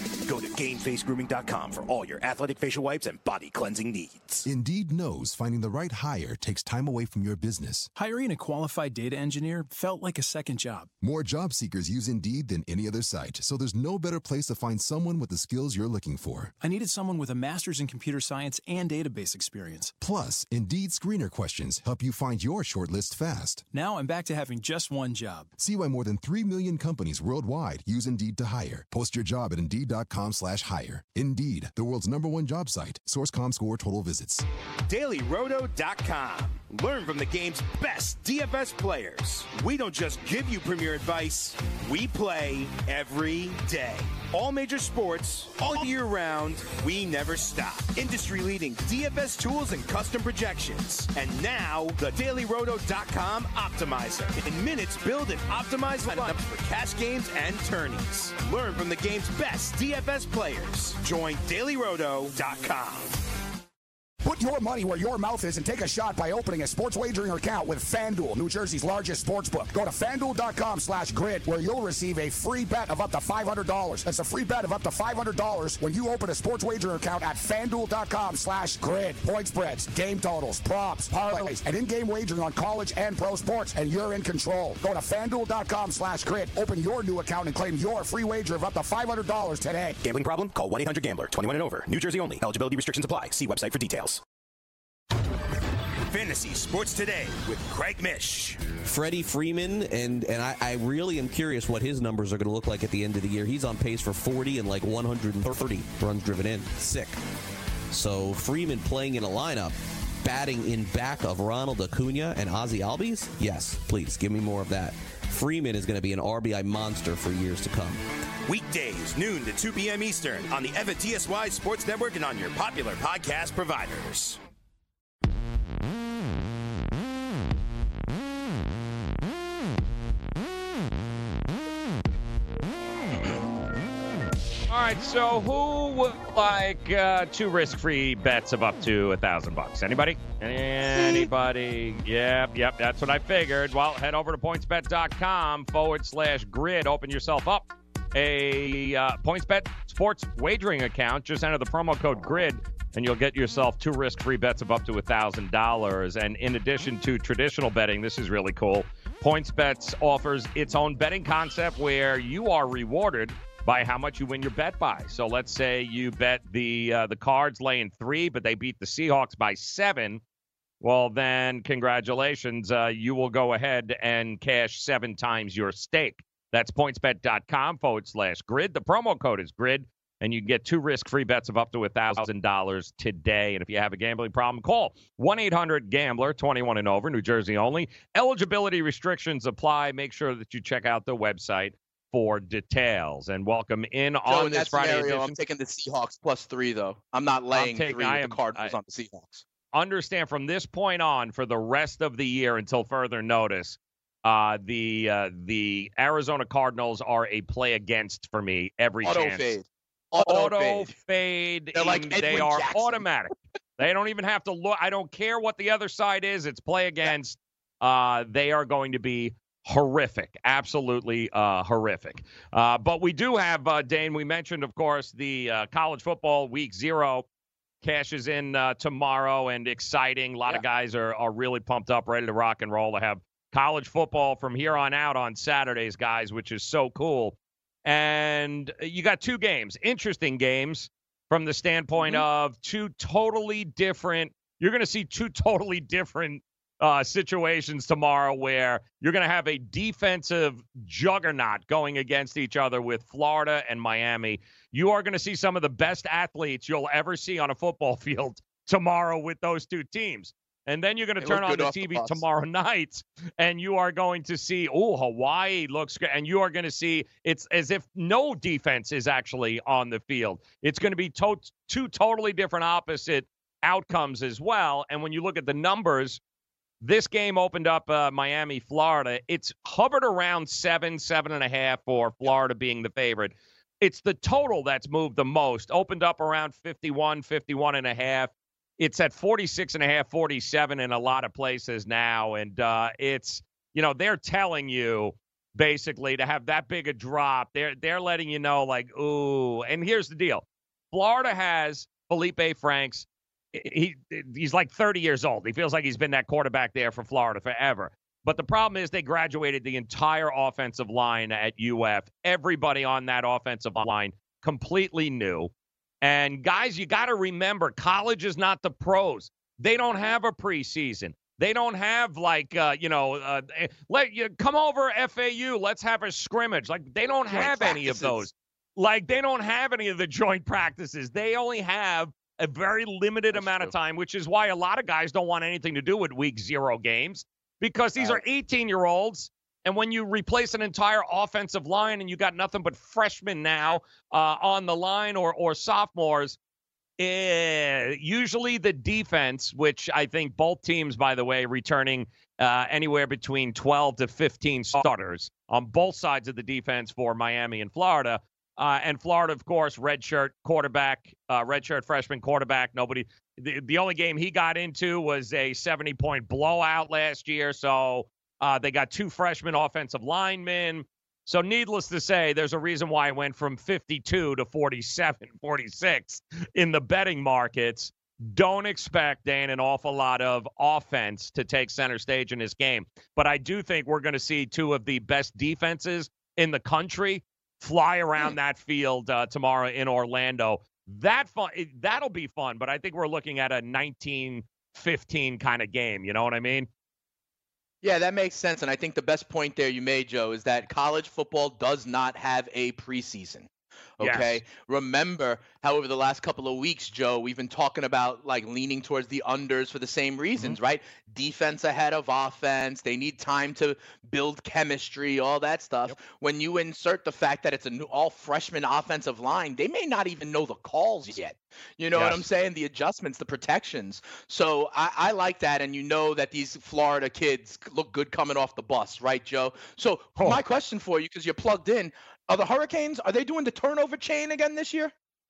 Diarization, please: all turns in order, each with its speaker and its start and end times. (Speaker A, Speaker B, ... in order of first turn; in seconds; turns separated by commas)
Speaker A: 0.2-4.5, Speaker B: 4.5-7.9, Speaker C: 8.0-10.9, Speaker B: 11.0-16.5, Speaker C: 16.6-19.9, Speaker B: 20.0-23.6, Speaker C: 23.7-25.5, Speaker B: 25.6-34.5, Speaker A: 34.9-63.1, Speaker D: 64.2-90.0, Speaker A: 90.0-94.2, Speaker A: 96.1-98.7, Speaker E: 98.8-107.2, Speaker E: 107.9-118.0, Speaker A: 118.5-124.4, Speaker F: 134.7-170.2, Speaker G: 140.9-141.3, Speaker F: 170.8-195.4, Speaker G: 194.3-199.4, Speaker F: 197.5-198.7, Speaker F: 199.7-209.5, Speaker G: 209.0-210.9, Speaker F: 210.2-227.3, Speaker G: 211.7-213.0, Speaker F: 227.8-276.2, Speaker G: 242.0-242.2, Speaker G: 261.2-262.2, Speaker F: 276.8-315.5, Speaker F: 316.0-346.4, Speaker G: 327.3-328.2, Speaker G: 333.3-333.7, Speaker F: 347.0-396.7, Speaker G: 397.8-403.5, Speaker G: 404.0-434.9, Speaker F: 404.0-404.4, Speaker F: 421.9-422.3